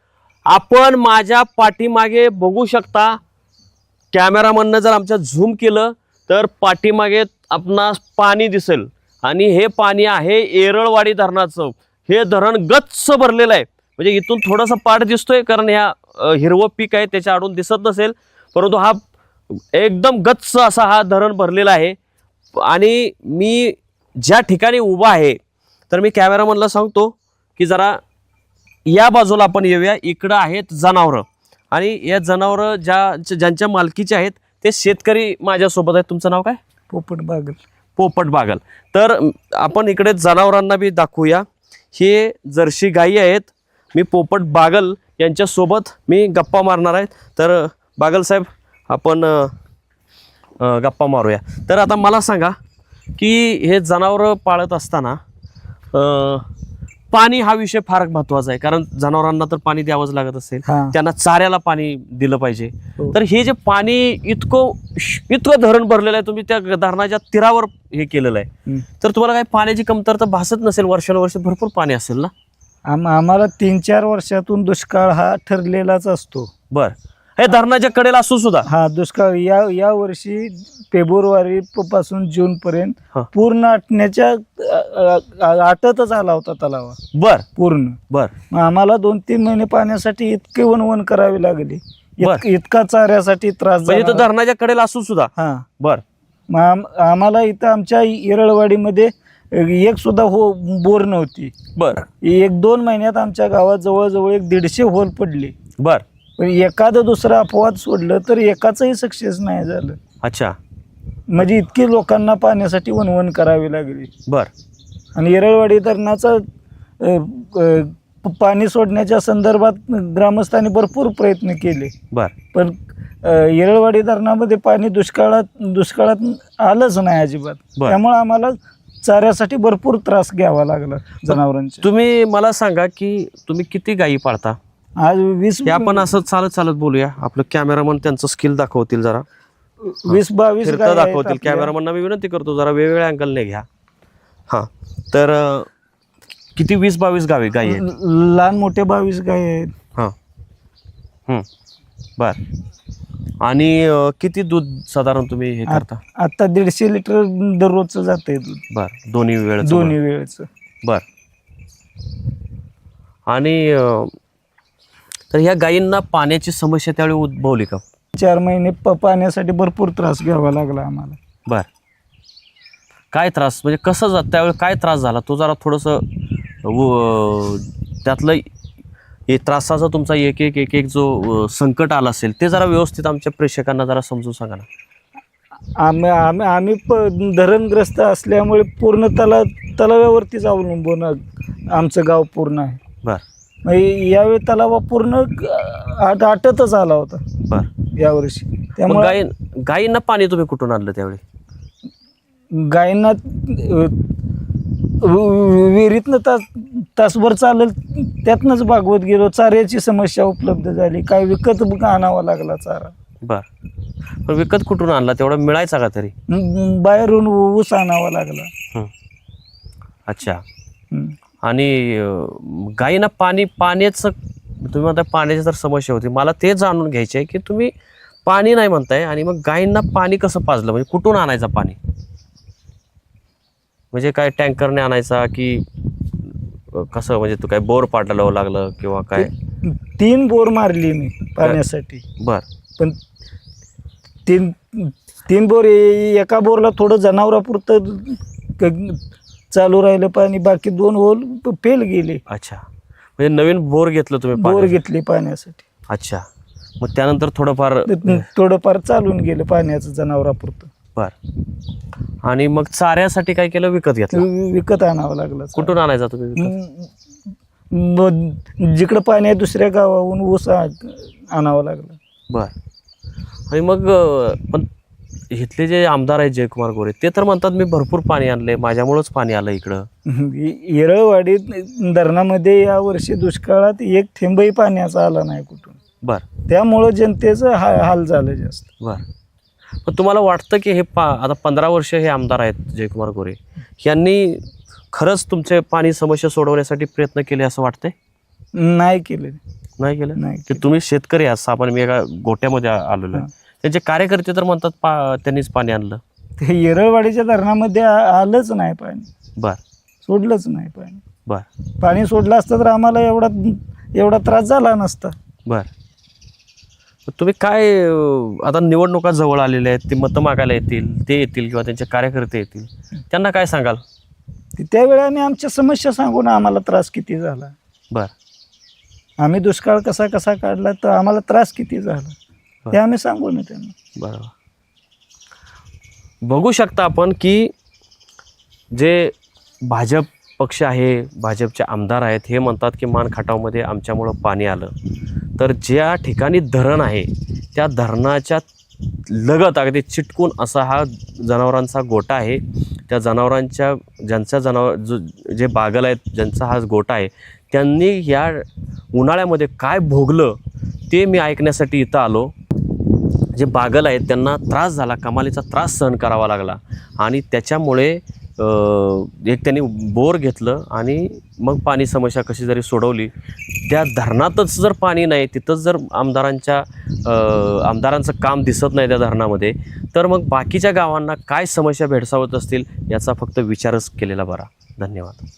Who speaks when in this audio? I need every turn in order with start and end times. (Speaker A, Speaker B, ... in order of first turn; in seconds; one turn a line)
Speaker A: 0.5-3.2
Speaker A: 4.1-22.0
Speaker A: 22.5-25.4
Speaker A: 25.9-28.0
Speaker A: 28.9-36.6
Speaker B: 36.9-37.6
Speaker A: 38.0-49.5
Speaker A: 50.6-52.5
Speaker A: 53.1-55.2
Speaker A: 55.9-56.5
Speaker A: 57.1-72.3
Speaker B: 60.6-61.0
Speaker B: 72.9-76.5
Speaker A: 76.7-78.7
Speaker B: 78.7-87.0
Speaker A: 87.1-87.5
Speaker B: 87.5-88.0
Speaker B: 88.5-94.3
Speaker A: 93.9-96.0
Speaker B: 95.3-95.7
Speaker B: 96.5-101.5
Speaker A: 101.8-102.1
Speaker B: 102.2-105.5
Speaker B: 106.4-110.0
Speaker A: 110.2-110.5
Speaker B: 111.3-114.1
Speaker B: 115.2-116.4
Speaker B: 117.0-121.9
Speaker B: 122.5-131.8
Speaker A: 131.2-134.6
Speaker B: 135.0-136.1
Speaker A: 135.6-139.2
Speaker B: 139.8-141.7
Speaker A: 140.1-143.7
Speaker A: 144.5-145.7
Speaker A: 146.5-147.8
Speaker B: 147.6-149.7
Speaker A: 153.4-156.0
Speaker B: 155.7-158.6
Speaker A: 158.7-159.9
Speaker B: 159.6-160.4
Speaker A: 163.3-164.1
Speaker A: 165.3-167.8
Speaker B: 168.1-171.2
Speaker A: 173.1-178.4
Speaker A: 179.3-184.7
Speaker B: 185.8-192.8
Speaker B: 193.6-197.2
Speaker B: 197.9-199.2
Speaker A: 198.8-201.2
Speaker B: 202.5-212.9
Speaker A: 214.2-216.1
Speaker B: 216.3-218.5
Speaker A: 220.1-220.4
Speaker A: 221.4-227.7
Speaker A: 228.2-231.8
Speaker A: 233.9-239.3
Speaker B: 239.1-242.0
Speaker A: 242.2-242.4
Speaker B: 244.2-252.2
Speaker A: 252.3-252.6
Speaker A: 253.2-254.8
Speaker B: 254.4-255.6
Speaker A: 255.9-256.2
Speaker A: 256.8-258.2
Speaker B: 257.9-260.7
Speaker A: 262.2-264.2
Speaker B: 264.1-265.7
Speaker A: 265.5-266.5
Speaker B: 266.4-266.9
Speaker B: 267.7-272.0
Speaker A: 273.5-274.7
Speaker A: 275.3-279.9
Speaker B: 280.1-285.8
Speaker B: 286.5-288.7
Speaker A: 289.8-297.9
Speaker B: 298.5-299.4
Speaker A: 299.8-306.0
Speaker B: 300.2-300.6
Speaker B: 306.4-309.1
Speaker B: 310.0-311.0
Speaker B: 311.8-315.1
Speaker A: 317.1-323.8
Speaker B: 324.6-327.5
Speaker B: 329.2-332.1
Speaker B: 332.7-333.7
Speaker A: 333.9-334.3
Speaker A: 336.2-337.5
Speaker A: 338.7-344.7
Speaker A: 345.4-362.3
Speaker A: 363.3-385.2